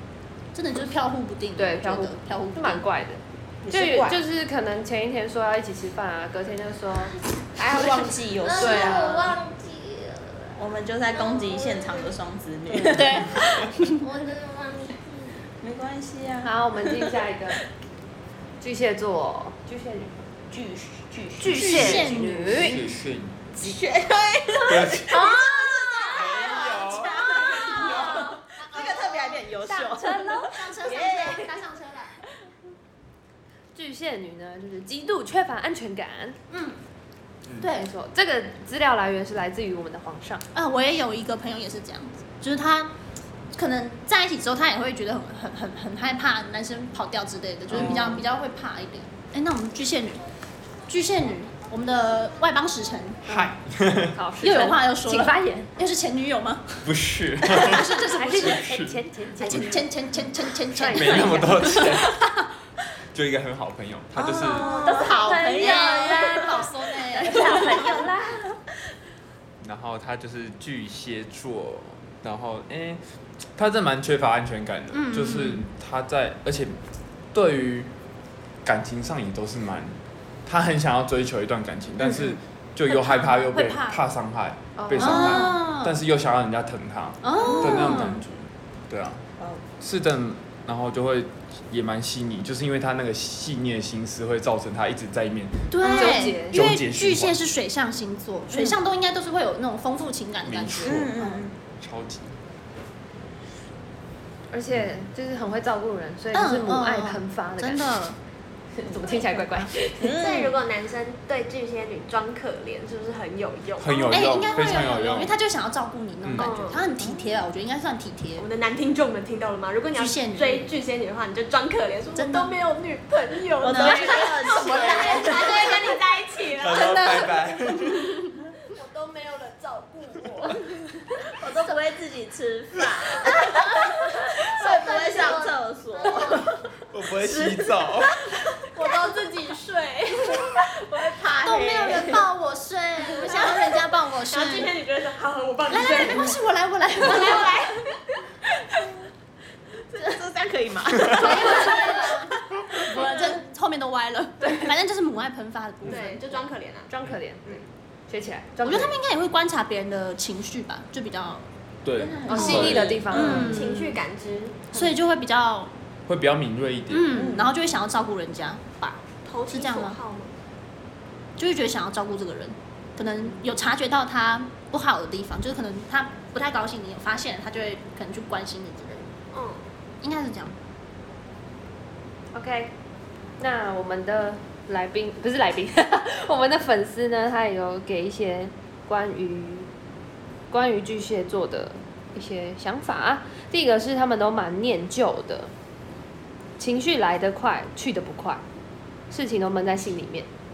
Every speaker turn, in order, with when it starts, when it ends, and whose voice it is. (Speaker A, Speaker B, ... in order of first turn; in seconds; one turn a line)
Speaker A: 0.5-2.8
Speaker B: 1.6-7.1
Speaker C: 3.6-4.2
Speaker C: 7.5-9.4
Speaker D: 8.4-12.2
Speaker B: 8.6-9.3
Speaker C: 10.6-13.4
Speaker A: 12.8-14.0
Speaker D: 14.0-15.4
Speaker C: 15.6-17.2
Speaker B: 16.4-17.6
Speaker B: 18.6-20.3
Speaker C: 20.5-22.1
Speaker B: 21.4-22.9
Speaker A: 21.5-22.8
Speaker E: 22.5-23.5
Speaker C: 23.6-31.5
Speaker E: 24.7-25.3
Speaker B: 25.1-25.9
Speaker E: 26.1-27.2
Speaker D: 26.3-28.9
Speaker A: 26.4-28.2
Speaker B: 27.7-28.0
Speaker A: 28.7-29.2
Speaker B: 29.8-30.5
Speaker A: 30.0-32.1
Speaker D: 30.9-31.5
Speaker B: 33.8-36.4
Speaker A: 36.5-36.8
Speaker A: 37.6-37.9
Speaker B: 37.6-40.4
Speaker A: 40.5-42.9
Speaker A: 43.5-50.2
Speaker E: 47.7-48.2
Speaker B: 47.8-48.2
Speaker A: 50.9-53.2
Speaker B: 53.3-53.6
Speaker E: 53.3-54.2
Speaker B: 54.1-55.7
Speaker A: 54.4-58.7
Speaker E: 56.8-59.8
Speaker B: 57.6-59.9
Speaker A: 59.4-62.4
Speaker B: 60.7-61.9
Speaker E: 60.8-62.2
Speaker E: 63.1-64.9
Speaker C: 64.2-66.7
Speaker A: 64.5-67.9
Speaker B: 64.5-68.5
Speaker C: 67.3-67.9
Speaker E: 69.6-73.0
Speaker E: 73.6-76.8
Speaker A: 74.9-75.7
Speaker E: 77.3-77.9
Speaker E: 78.6-89.2
Speaker A: 82.9-84.0
Speaker B: 84.8-85.5
Speaker A: 85.0-86.0
Speaker A: 87.2-88.2
Speaker C: 87.4-88.0
Speaker E: 89.8-97.4
Speaker A: 95.7-101.4
Speaker B: 95.8-96.6
Speaker E: 100.5-102.4
Speaker C: 100.8-101.6
Speaker B: 104.5-108.0
Speaker A: 106.3-108.2
Speaker B: 108.8-110.1
Speaker C: 110.0-110.6
Speaker F: 110.0-114.9
Speaker E: 113.8-115.4
Speaker A: 114.1-118.5
Speaker E: 116.2-116.5
Speaker F: 116.4-116.8
Speaker C: 117.0-117.3
Speaker F: 118.4-127.3
Speaker A: 119.9-120.7
Speaker A: 122.1-122.5
Speaker C: 123.6-125.8
Speaker A: 123.7-126.0
Speaker E: 126.6-128.2
Speaker A: 126.7-127.3
Speaker F: 128.7-130.7
Speaker C: 131.4-133.8
Speaker C: 134.4-136.6
Speaker D: 134.6-136.5
Speaker E: 136.9-138.2
Speaker C: 137.2-137.9
Speaker F: 138.6-140.7
Speaker C: 140.3-142.2
Speaker A: 141.4-144.8
Speaker F: 143.2-146.4
Speaker A: 145.7-147.6
Speaker F: 147.0-148.2
Speaker C: 149.9-152.3
Speaker A: 151.1-152.3
Speaker F: 151.2-152.2
Speaker A: 152.9-156.4
Speaker F: 153.0-153.2
Speaker F: 155.8-156.9
Speaker B: 156.9-158.9
Speaker A: 158.6-161.5
Speaker E: 161.8-163.2
Speaker C: 162.0-163.6
Speaker B: 162.3-163.6
Speaker A: 162.3-164.0
Speaker F: 162.3-165.0
Speaker A: 164.7-165.7
Speaker E: 166.1-167.2
Speaker A: 166.9-170.0
Speaker C: 167.1-167.5
Speaker F: 169.2-170.3
Speaker A: 171.4-179.1
Speaker F: 179.3-179.7
Speaker A: 180.0-180.6
Speaker B: 182.3-182.7
Speaker B: 183.4-189.7
Speaker B: 190.5-195.5
Speaker B: 196.6-198.4
Speaker B: 199.1-200.3